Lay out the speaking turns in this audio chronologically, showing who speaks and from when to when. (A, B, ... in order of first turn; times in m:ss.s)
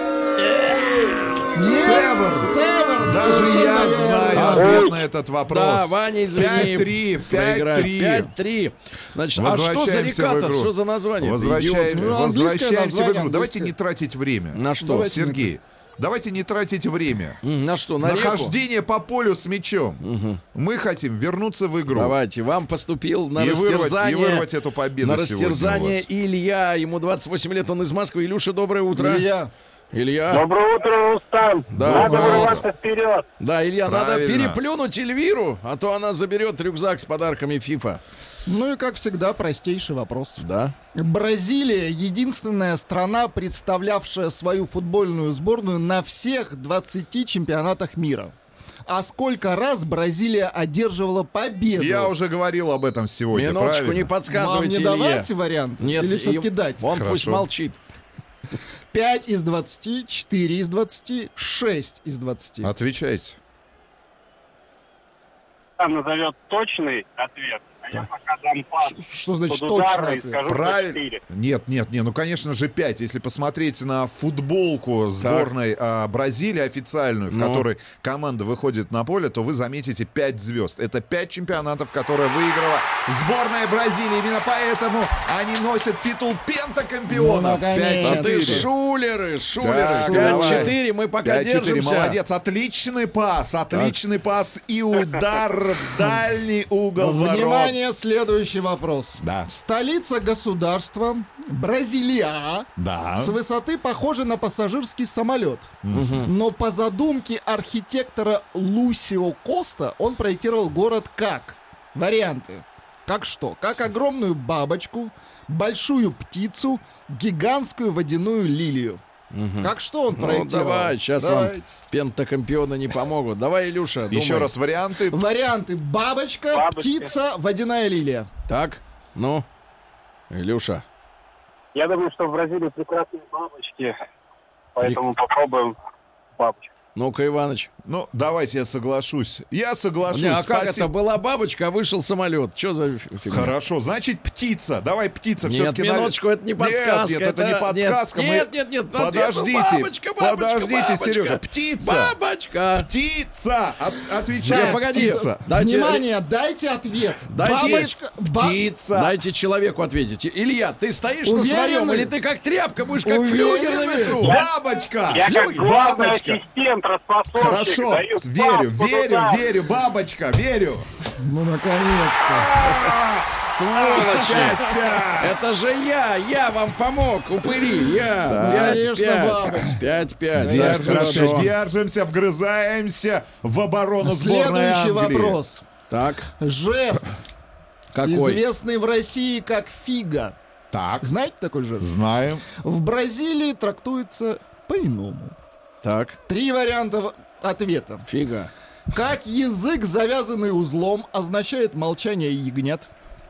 0:00.4-0:01.3 A
0:01.5-0:04.8 B
0:01.6-0:08.3 C
0:04.4-0:05.0 A
0:05.5-0:12.1 A
0:09.4-0:17.4 C
0:11.9-0:13.7 B
0:14.6-0:15.2 A
0:14.8-0:15.5 B
0:17.4-0:18.6 A
0:18.0-0:22.2 C
0:20.0-0:20.4 A
0:21.9-0:24.5 A
0:23.4-0:26.1 C
0:25.0-0:29.3 A
0:28.9-0:29.5 B
0:29.9-0:30.5 A
0:30.3-0:33.2 D
0:31.7-0:32.6 A
0:31.8-0:32.6 C
0:31.9-0:32.6 B
0:33.4-0:38.0 A
0:33.8-0:34.6 C
0:38.5-0:48.3 B
0:40.4-0:40.7 A
0:48.9-0:52.1 B
0:51.8-0:54.1 C
0:53.3-0:57.8 A
0:54.3-0:56.9 B
0:56.8-0:57.5 C
0:58.9-1:02.7 B
1:02.6-1:03.4 C
1:05.8-1:11.2 D
1:08.8-1:10.4 B
1:10.4-1:28.7 C
1:15.2-1:15.5 A
1:17.3-1:17.6 A
1:27.1-1:28.7 B
1:28.0-1:32.2 A
1:29.6-1:37.8 C
1:30.0-1:30.7 B
1:33.7-1:34.0 A
1:37.0-1:59.0 B
1:39.2-1:39.5 C
1:42.8-1:43.4 C
1:45.8-1:46.2 C
1:45.9-1:46.3 A
1:59.3-2:04.5 A
1:59.6-2:01.8 B
2:04.1-2:05.2 C
2:05.1-2:08.3 B
2:06.5-2:07.1 D
2:08.5-2:09.4 A
2:10.3-2:10.8 A
2:11.7-2:14.0 D
2:14.8-2:15.8 D
2:16.4-2:16.7 D
2:17.0-2:17.7 A
2:17.8-2:20.9 C
2:20.1-2:23.5 A
2:23.3-2:32.2 C
2:25.4-2:32.9 A
2:32.8-2:35.4 C
2:34.4-2:38.7 B
2:34.5-2:36.0 A
2:37.3-2:37.9 A
2:37.4-2:39.2 C
2:38.9-2:44.4 A
2:41.3-2:42.1 B
2:43.0-2:44.2 B
2:44.2-2:44.5 D
2:44.2-2:46.4 C
2:45.1-2:49.4 D
2:45.2-2:45.6 A
2:47.4-2:50.9 C
2:51.2-2:52.6 B
2:52.3-2:55.5 C
2:53.3-2:54.6 A
2:54.1-2:54.4 B
2:55.2-3:01.5 A
2:58.2-2:58.9 C
2:58.4-2:59.8 B
3:00.4-3:05.4 C
3:00.4-3:01.4 B
3:04.0-3:05.6 B
3:05.9-3:06.3 A
3:06.4-3:07.2 B
3:07.9-3:08.4 A
3:08.0-3:10.4 B
3:10.7-3:11.1 C
3:11.0-3:11.9 B
3:11.8-3:12.4 C
3:12.5-3:15.4 B
3:15.8-3:16.2 A
3:16.3-3:18.0 B
3:18.1-3:18.5 A
3:18.9-3:22.9 B